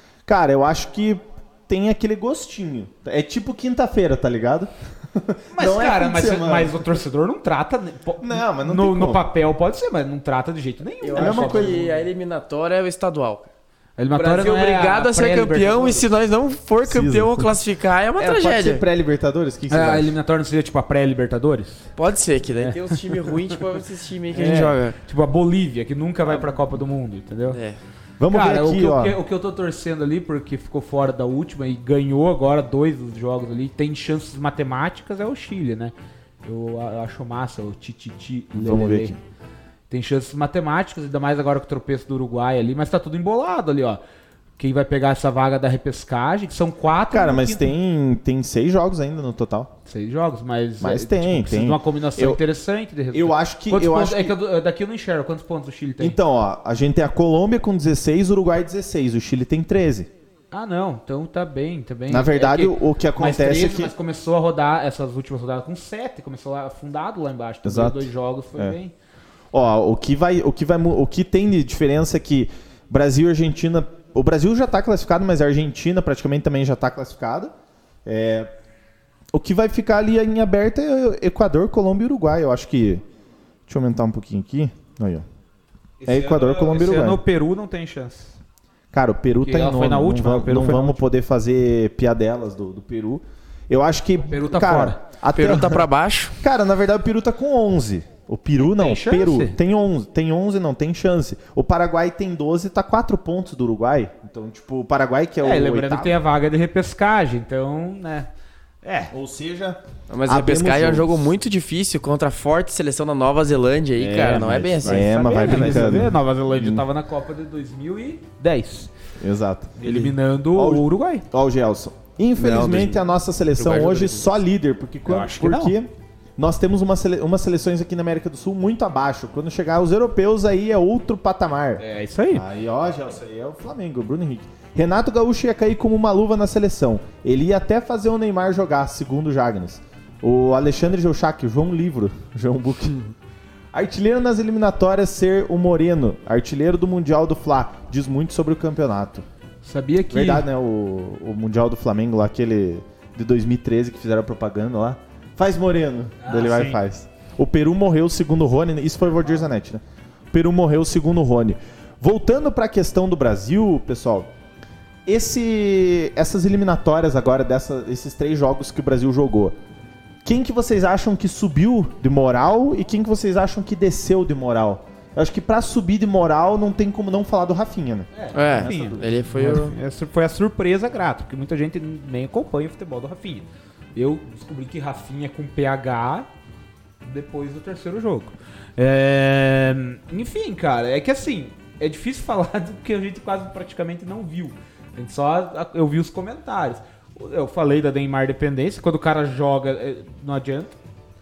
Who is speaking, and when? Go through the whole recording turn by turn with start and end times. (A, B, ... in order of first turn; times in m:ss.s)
0:00.2-0:06.9 A
0:05.5-0:12.0 B
0:08.2-0:09.2 A
0:11.0-0:13.5 C
0:11.1-0:11.8 A
0:14.0-0:16.1 B
0:14.1-0:18.8 C
0:16.8-0:17.5 A
0:18.2-0:20.1 A
0:19.7-0:21.9 B
0:22.0-0:25.0 C
0:22.6-0:23.6 B
0:24.3-0:27.6 B
0:27.5-0:27.8 C
0:28.2-0:29.2 A
0:28.3-0:39.2 B
0:38.5-0:39.2 A
0:39.9-0:44.0 B
0:44.6-0:47.7 B
0:47.1-0:49.7 A
0:49.9-0:56.2 B
0:50.8-0:52.4 A
0:53.1-0:54.4 A
0:56.0-1:00.1 A
1:00.5-1:08.9 B
1:02.1-1:03.9 A
1:07.6-1:08.8 A
1:09.5-1:17.5 A
1:18.0-1:18.5 A
1:19.3-1:23.0 A
1:23.7-1:25.2 A
1:26.0-1:28.4 B
1:26.0-1:27.2 A
1:28.9-1:35.8 A
1:29.4-1:31.0 B
1:34.3-1:35.0 B
1:35.3-1:36.4 C
1:36.4-1:46.2 A
1:38.6-1:39.6 B
1:45.4-1:48.3 B
1:48.8-1:49.1 B
1:49.1-1:51.3 A
1:50.1-1:55.9 C
1:54.0-1:58.9 B
1:54.2-1:56.8 A
1:59.2-1:59.8 A
1:59.8-2:01.2 B
2:00.5-2:23.0 A
2:02.4-2:03.0 C
2:03.6-2:04.3 C
2:05.0-2:05.8 B
2:11.8-2:12.4 B
2:23.7-2:29.2 A
2:29.6-2:30.5 B
2:30.1-2:44.3 A
2:36.2-2:36.8 B
2:45.0-2:49.6 A
2:50.2-2:59.3 A
2:58.1-3:06.3 B
2:58.3-2:59.7 C
3:07.0-3:20.8 B